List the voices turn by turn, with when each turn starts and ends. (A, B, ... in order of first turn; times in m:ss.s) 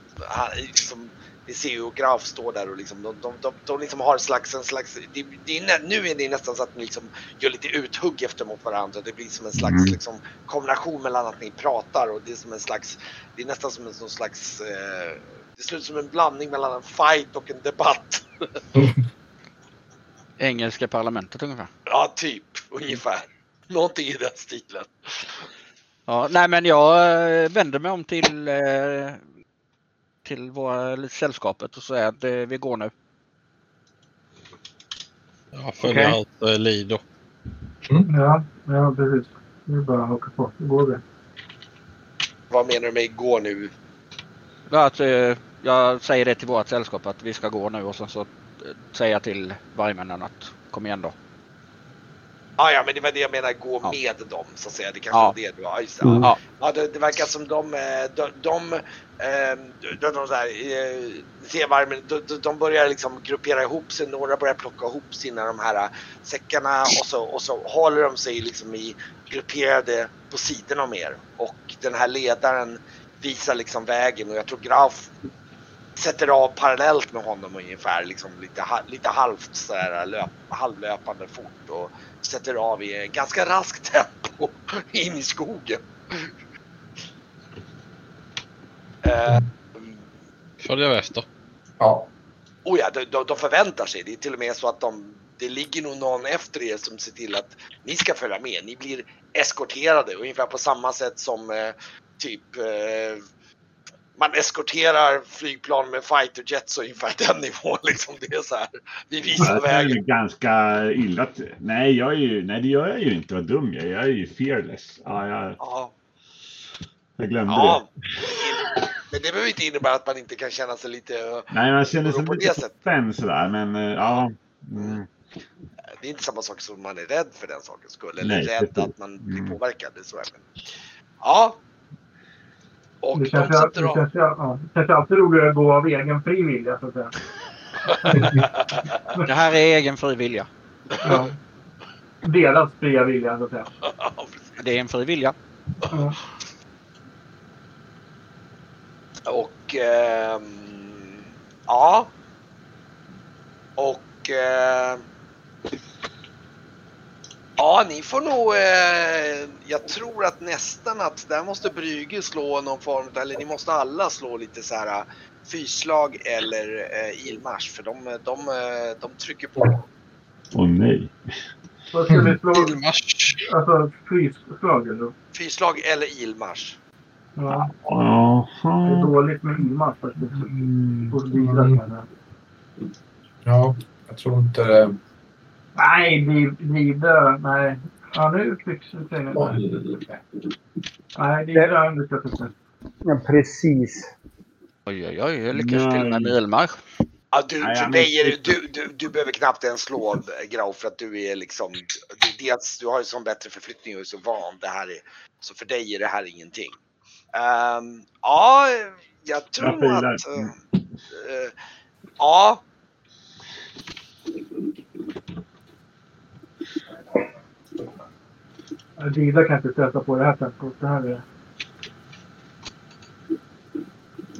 0:00.2-0:18.2 A
0:09.6-0:10.0 B
0:20.4-0:21.7 C
0:21.9-0:25.2 A
0:26.1-0:29.2 C
0:30.2-0:32.9 C
0:35.5-0:37.0 D
0:35.8-0:36.1 E
0:38.1-0:41.0 F
0:42.5-0:43.7 A
0:44.7-0:51.1 C
0:52.6-1:15.1 A
0:56.0-0:56.3 E
1:16.0-1:26.3 A
1:29.0-1:30.0 A
1:30.6-1:31.2 D
1:31.8-1:32.1 G
1:32.6-1:43.2 A
1:44.2-1:50.0 A
1:49.4-1:55.6 B
1:55.6-1:55.9 A
1:57.2-1:58.4 B
1:57.5-2:02.7 A
2:01.5-2:05.1 B
2:06.0-2:10.4 A
2:08.2-2:09.6 B
2:11.2-2:11.6 A
2:13.0-2:14.0 A
2:13.1-2:17.1 F
2:17.9-2:18.5 F
2:18.1-2:19.0 A
2:19.2-2:20.5 C
2:21.0-2:21.4 F
2:22.2-2:23.7 F
2:23.8-2:24.5 A
2:24.6-2:25.3 C
2:25.9-2:26.2 F
2:29.3-2:32.1 A
2:33.8-2:35.0 A
2:37.6-2:49.8 A
2:50.5-2:51.1 B
2:51.9-2:52.8 F
2:52.1-2:52.3 G
2:52.5-2:53.4 D
2:53.4-2:55.1 F
2:55.3-2:56.8 A
2:57.4-2:57.7 F
2:57.5-2:59.1 B
2:58.8-3:02.0 F
3:00.5-3:01.2 E
3:01.4-3:01.8 G
3:03.4-3:05.0 G
3:05.8-3:09.6 F
3:09.4-3:09.8 G
3:11.2-3:12.5 F
3:13.0-3:14.1 E
3:14.8-3:16.8 C
3:15.5-3:16.4 B
3:17.3-3:26.8 A
3:17.6-3:18.6 B
3:27.3-3:30.5 A
3:29.6-3:30.5 B
3:31.1-3:31.5 A
3:32.2-3:32.6 A
3:39.0-3:41.2 F